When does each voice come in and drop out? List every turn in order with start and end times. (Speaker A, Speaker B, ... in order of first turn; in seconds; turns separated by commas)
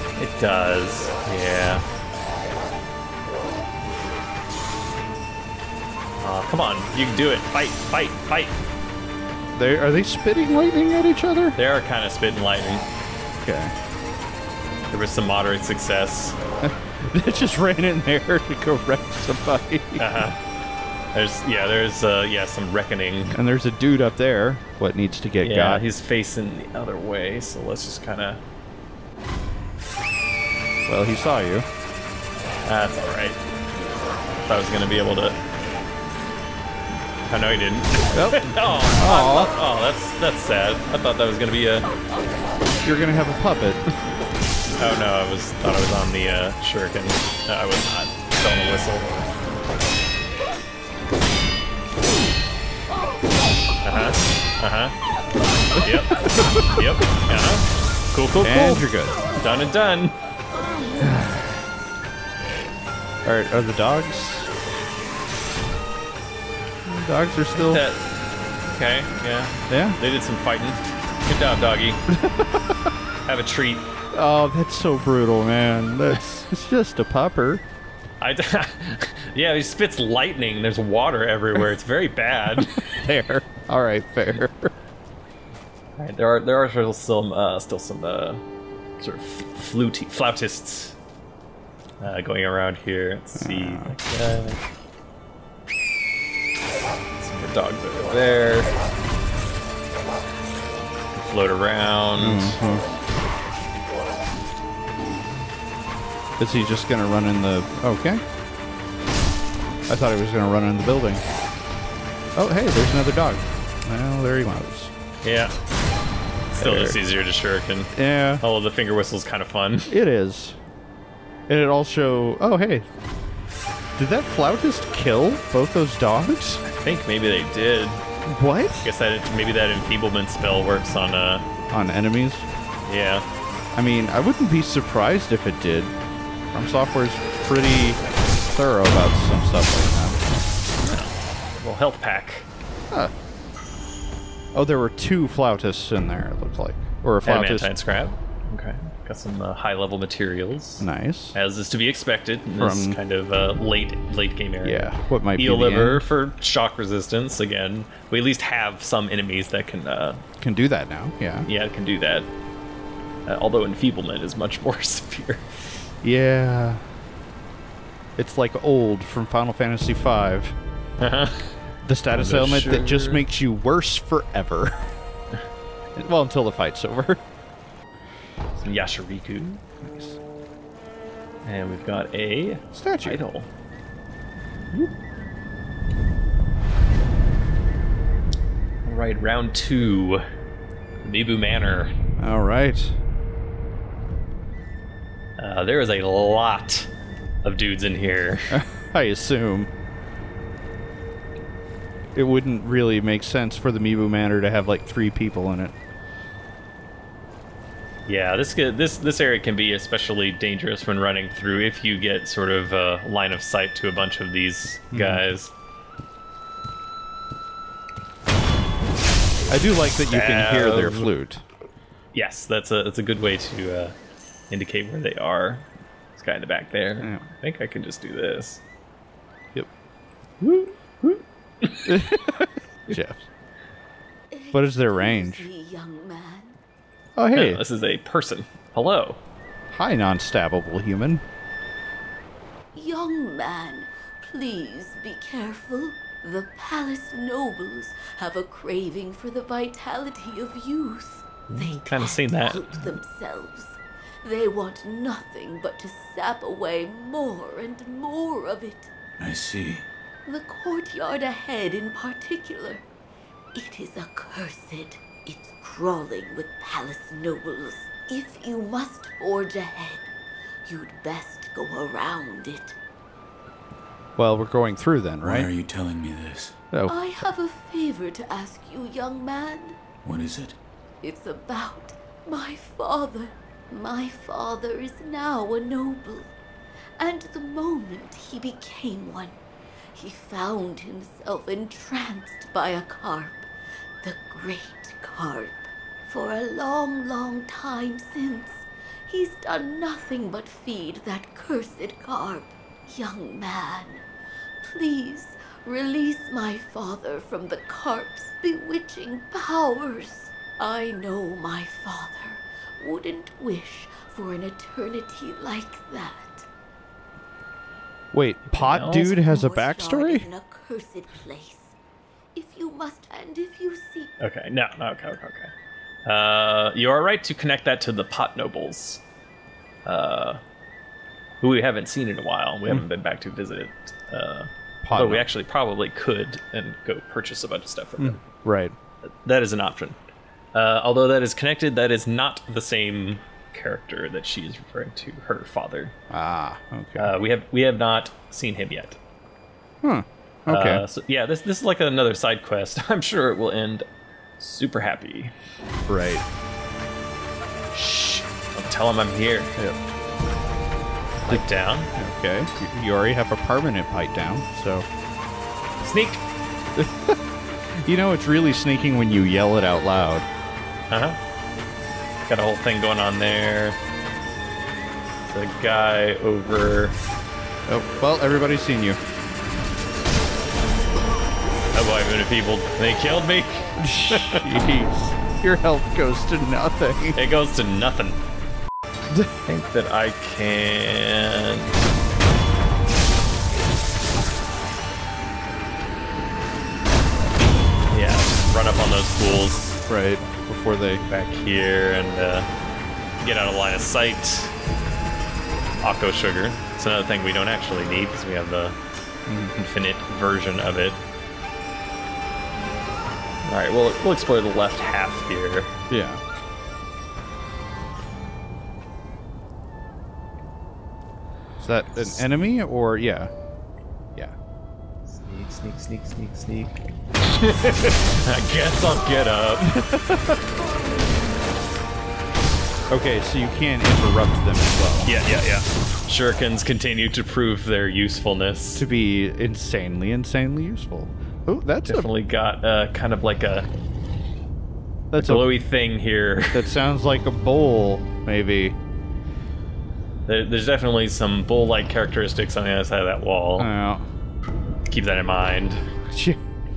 Speaker A: 0.2-1.9, Speaker A: 6.2-8.6, Speaker B: 9.5-11.6, Speaker A: 11.6-12.8, Speaker B: 13.4-13.7, Speaker A: 14.9-16.4, Speaker B: 16.6-20.1, Speaker A: 20.0-20.4, Speaker A: 21.1-23.4, Speaker B: 23.3-25.8, Speaker A: 25.4-28.4, Speaker B: 30.9-31.7, Speaker A: 32.6-33.4, Speaker A: 34.5-35.4, Speaker A: 37.3-41.9, Speaker B: 38.1-39.5, Speaker B: 42.8-43.9, Speaker A: 44.8-49.3, Speaker A: 53.8-55.0, Speaker A: 55.8-60.1, Speaker B: 58.4-59.2, Speaker B: 61.0-61.5, Speaker B: 63.2-64.5, Speaker B: 66.8-67.8, Speaker A: 67.5-68.0, Speaker A: 68.7-72.0, Speaker B: 69.7-70.0, Speaker B: 72.1-72.9, Speaker A: 73.3-73.9, Speaker B: 74.1-77.6, Speaker A: 78.2-82.9, Speaker B: 82.6-84.7, Speaker A: 86.0-88.4, Speaker A: 89.0-91.0, Speaker A: 92.0-94.6, Speaker B: 93.4-93.9, Speaker A: 97.2-98.7, Speaker A: 101.1-102.6, Speaker B: 102.2-102.8, Speaker B: 106.4-108.2, Speaker B: 109.9-111.2, Speaker B: 112.3-114.9, Speaker A: 115.2-115.5, Speaker B: 116.5-117.0, Speaker A: 116.6-119.9, Speaker B: 117.9-118.4, Speaker B: 119.9-120.6, Speaker B: 121.5-122.9, Speaker B: 124.0-126.6, Speaker A: 126.6-128.0, Speaker B: 128.2-128.9, Speaker A: 128.8-131.5, Speaker B: 131.7-132.5, Speaker A: 132.9-133.2, Speaker B: 133.7-135.9, Speaker B: 136.5-140.2, Speaker A: 140.8-142.5, Speaker B: 144.5-147.7, Speaker A: 147.2-160.2, Speaker B: 150.8-151.3, Speaker B: 152.6-153.0, Speaker B: 154.6-156.0, Speaker B: 160.4-161.5, Speaker A: 161.4-162.3, Speaker A: 163.3-165.9, Speaker B: 166.0-166.8, Speaker B: 168.2-170.6, Speaker A: 171.0-171.6, Speaker B: 171.8-174.9, Speaker A: 172.1-173.2, Speaker B: 175.9-177.2, Speaker A: 178.6-179.6, Speaker B: 179.8-180.2, Speaker A: 181.4-183.5, Speaker B: 182.7-183.2, Speaker A: 188.8-190.3, Speaker A: 191.0-191.9, Speaker B: 192.2-193.0, Speaker A: 195.4-196.9, Speaker A: 197.4-198.6, Speaker B: 198.5-199.7, Speaker B: 202.2-205.7, Speaker A: 208.1-215.5, Speaker B: 214.9-215.2, Speaker B: 219.5-221.4, Speaker A: 220.1-221.1, Speaker A: 222.1-223.9, Speaker A: 224.5-228.6, Speaker B: 227.0-227.2, Speaker A: 230.4-232.0, Speaker B: 231.9-233.2, Speaker C: 234.3-236.6, Speaker B: 234.5-235.5, Speaker B: 237.2-237.6, Speaker A: 237.3-239.2, Speaker B: 239.7-241.2, Speaker C: 242.7-258.9, Speaker A: 251.5-253.0, Speaker D: 259.2-259.9, Speaker C: 260.3-262.9, Speaker C: 263.5-270.1, Speaker C: 270.6-272.8, Speaker B: 274.2-275.5, Speaker D: 275.2-276.6, Speaker B: 276.7-277.0, Speaker C: 276.9-279.8, Speaker D: 280.0-280.6, Speaker C: 281.0-286.3, Speaker C: 287.0-289.4, Speaker C: 289.9-293.5, Speaker C: 294.0-304.0, Speaker C: 304.6-316.5, Speaker B: 318.1-320.3, Speaker A: 318.5-319.1, Speaker C: 318.8-321.7, Speaker C: 322.4-324.1, Speaker A: 324.2-325.5, Speaker A: 326.1-329.0, Speaker A: 329.9-330.4, Speaker A: 331.4-338.2, Speaker B: 334.8-335.3, Speaker B: 338.0-338.8, Speaker A: 339.1-340.0, Speaker A: 340.5-345.9, Speaker B: 346.1-347.1, Speaker A: 347.0-349.0, Speaker B: 349.8-350.9, Speaker A: 350.5-353.9, Speaker A: 354.4-355.3, Speaker B: 355.9-356.2, Speaker A: 357.7-359.6, Speaker A: 361.3-361.9, Speaker B: 361.9-364.9, Speaker A: 365.8-366.2, Speaker B: 366.8-370.3, Speaker A: 370.9-371.2, Speaker A: 372.3-373.8, Speaker A: 375.2-377.0, Speaker B: 377.7-379.0, Speaker A: 381.7-384.5, Speaker B: 383.8-387.2, Speaker A: 387.1-388.2, Speaker A: 389.4-391.7, Speaker A: 397.9-399.8, Speaker B: 399.9-401.1, Speaker A: 401.1-402.5, Speaker A: 403.2-404.5, Speaker A: 405.8-408.8, Speaker B: 409.3-409.7, Speaker A: 409.6-411.0, Speaker A: 413.4-415.8, Speaker B: 415.9-416.2, Speaker B: 421.6-423.3, Speaker A: 421.9-422.2, Speaker A: 425.1-426.8, Speaker A: 427.3-429.9, Speaker B: 429.8-430.4, Speaker B: 432.9-435.1, Speaker A: 435.1-438.9, Speaker B: 438.8-442.1, Speaker A: 441.9-443.7, Speaker B: 445.1-445.5, Speaker A: 445.2-446.8, Speaker B: 446.5-448.8, Speaker A: 450.3-453.7, Speaker B: 453.6-454.1, Speaker A: 454.9-455.9, Speaker B: 456.1-456.4